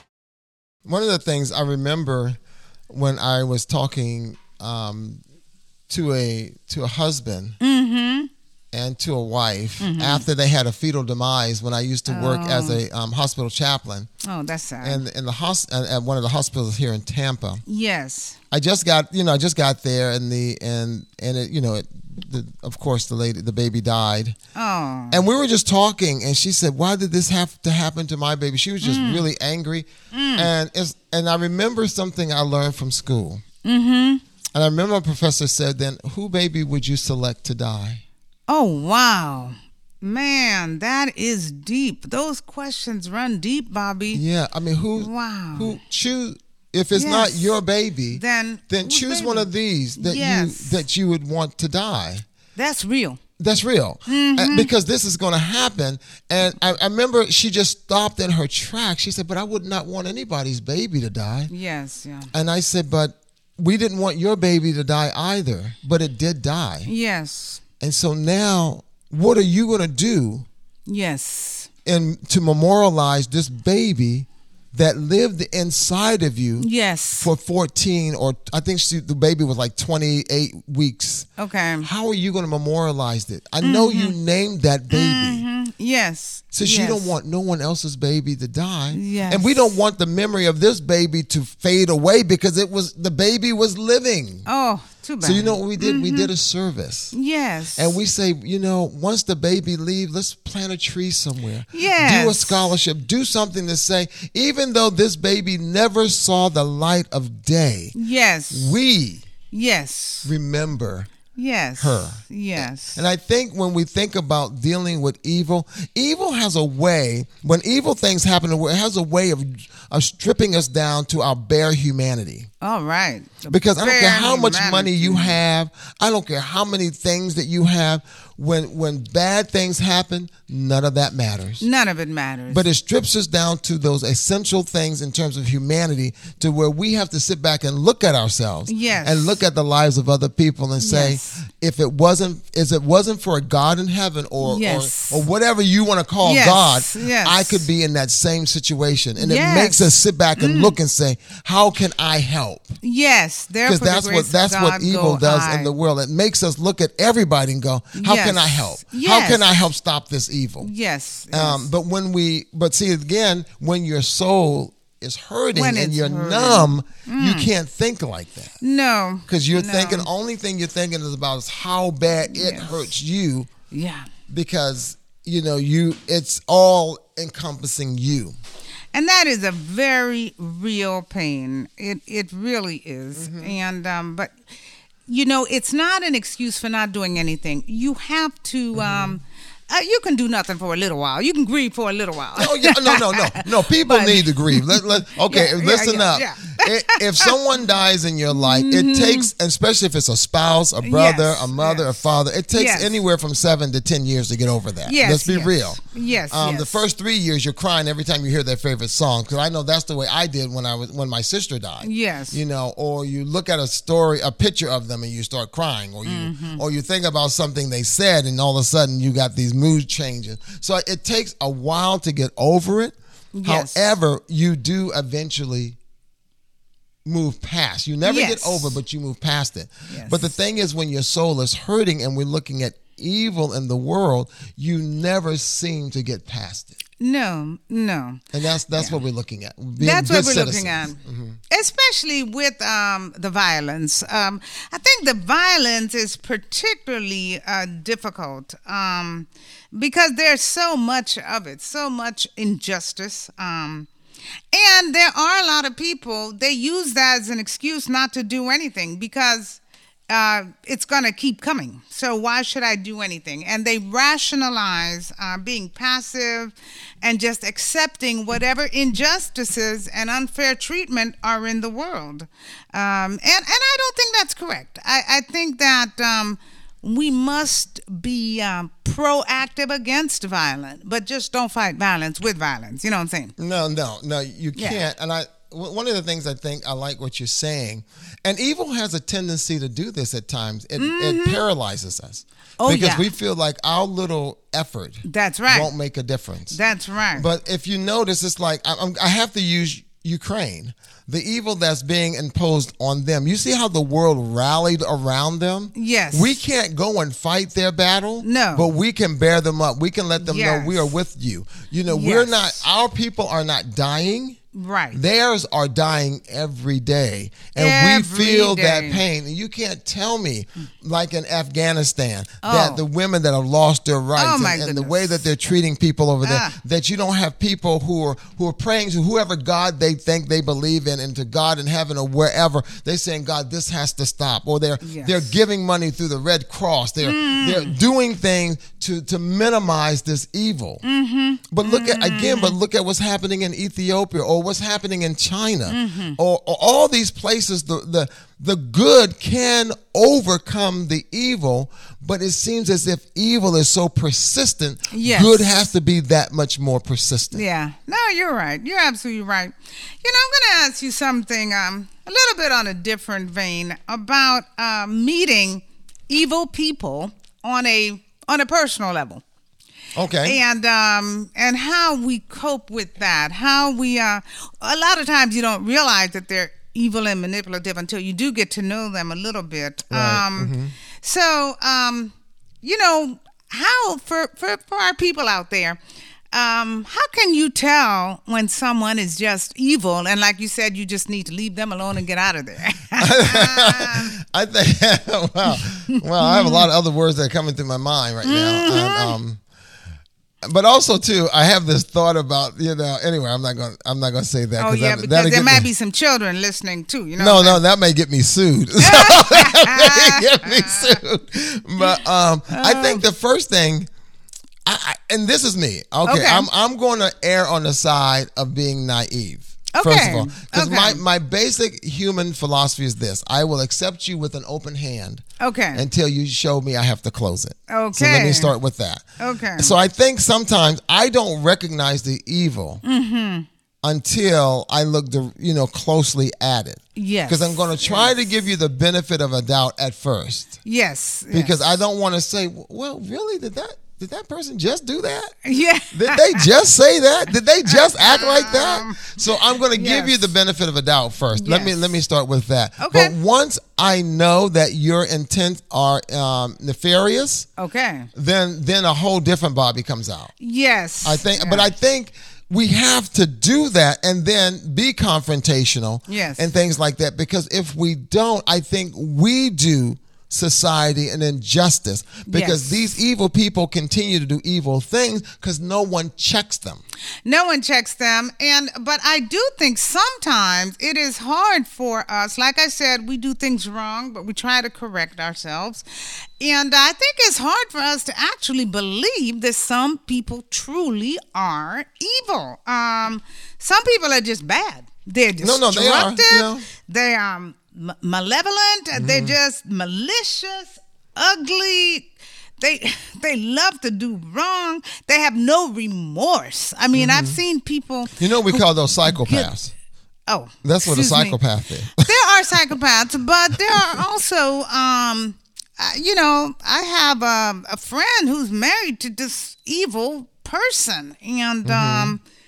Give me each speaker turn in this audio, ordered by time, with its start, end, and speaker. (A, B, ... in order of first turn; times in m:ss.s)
0:00.8-0:02.4 A
0:02.9-0:05.2 A
0:05.9-0:07.6 A
0:07.6-0:08.3 B
0:08.7-0:14.1 A
0:09.8-0:10.2 B
0:12.1-0:12.8 B
0:14.2-0:15.0 B
0:14.8-0:17.6 A
0:17.6-0:18.4 B
0:18.5-0:24.4 A
0:24.5-0:25.2 B
0:25.1-0:33.4 A
0:28.8-0:29.2 B
0:30.1-0:30.5 B
0:33.6-0:34.2 B
0:34.5-0:38.0 A
0:38.5-0:44.2 B
0:44.1-0:52.2 A
0:45.0-0:45.8 B
0:46.9-0:47.6 B
0:48.1-0:50.8 B
0:52.5-0:53.2 B
0:53.4-1:01.5 A
0:54.1-0:54.7 B
1:01.5-1:02.3 B
1:02.3-1:06.9 A
1:06.8-1:07.6 B
1:07.8-1:10.4 A
1:10.8-1:11.7 B
1:11.8-1:21.3 A
1:16.6-1:17.3 B
1:21.4-1:21.9 B
1:21.8-1:25.4 A
1:23.6-1:24.2 B
1:24.9-1:27.2 B
1:26.5-1:34.5 A
1:28.9-1:29.7 B
1:34.4-1:36.3 B
1:35.2-1:37.1 A
1:37.1-1:38.0 B
1:37.7-1:48.0 A
1:41.7-1:42.6 B
1:47.9-1:48.8 B
1:48.5-1:49.3 A
1:49.5-1:50.3 B
1:50.2-1:51.1 A
1:51.3-1:53.0 B
1:51.8-2:02.5 A
2:02.6-2:05.4 B
2:03.5-2:11.6 A
2:11.6-2:12.6 B
2:12.5-2:32.8 A
2:18.7-2:19.4 B
2:20.8-2:21.4 B
2:24.4-2:25.2 B
2:26.2-2:27.6 B
2:29.2-2:30.8 B
2:32.8-2:35.8 B
2:33.6-2:40.7 A
2:38.0-2:39.5 B
2:40.6-2:41.7 B
2:41.3-2:48.5 A
2:45.5-2:47.5 B
2:48.6-2:50.1 B
2:49.3-2:53.5 A
2:52.3-2:52.9 B
2:53.7-2:54.1 B
2:54.3-2:58.3 A
2:58.9-3:04.3 B
3:03.1-3:03.6 A
3:05.0-3:17.4 B
3:08.7-3:09.2 A
3:12.4-3:45.8 A
3:18.3-3:19.3 B
3:20.8-3:23.0 B
3:24.8-3:26.8 B
3:31.8-3:32.4 B
3:36.0-3:36.6 B
3:43.3-3:43.8 B
3:47.0-3:56.8 A
3:48.0-3:48.8 B
3:49.9-3:50.3 B
3:57.0-3:59.0 B
3:58.3-4:01.4 A
3:59.8-4:13.9 B
4:14.5-4:43.3 B
4:43.4-4:56.6 A
4:44.5-4:44.8 B
4:50.8-4:51.4 B
4:52.6-4:53.1 B
4:55.0-4:55.7 B
4:56.5-4:57.3 B
4:57.1-5:14.4 A
5:05.7-5:06.4 B
5:08.2-5:08.7 B
5:10.2-5:10.9 B
5:11.9-5:12.6 B
5:14.5-5:15.0 B
5:14.9-5:40.8 A
5:17.5-5:19.0 B
5:22.4-5:22.8 B
5:24.1-5:25.2 B
5:26.2-5:26.6 B
5:34.8-5:35.3 B
5:37.0-5:37.8 B
5:40.8-5:42.6 B
5:41.5-5:57.4 A
5:45.7-5:46.2 B
5:54.9-5:55.5 B
5:57.3-6:09.2 B
6:09.9-6:10.4 A
6:10.2-6:34.1 B
6:19.9-6:20.8 A
6:33.0-6:39.4 A
6:36.2-6:36.7 B
6:38.2-6:39.2 B
6:40.4-6:45.7 A
6:44.6-6:47.6 B
6:47.2-6:53.9 A
6:48.8-6:51.0 B
6:52.5-6:53.0 B
6:54.6-7:09.0 A
6:56.0-6:56.5 B
6:59.7-7:01.0 B
7:05.4-7:05.8 B
7:07.7-7:08.5 B
7:09.2-7:09.8 B
7:09.6-7:12.8 A
7:12.8-7:13.5 B
7:13.8-7:20.6 A
7:16.9-7:18.2 B
7:20.6-7:21.7 B
7:21.3-7:25.3 A
7:25.4-7:26.5 B
7:25.9-7:37.5 A
7:27.6-7:30.3 B
7:31.4-7:31.9 B
7:32.8-7:33.1 B
7:37.6-7:38.1 B
7:38.1-7:40.3 A
7:40.4-7:41.7 B
7:41.0-7:56.8 A
7:46.1-7:46.5 B
7:52.3-7:52.8 B
7:57.2-8:05.8 B
8:06.4-8:29.5 B
8:15.4-8:16.6 A
8:19.0-8:19.4 A
8:26.9-8:27.4 A
8:28.2-8:29.7 A
8:30.3-8:42.2 B
8:30.6-8:32.6 A
8:41.6-8:42.2 A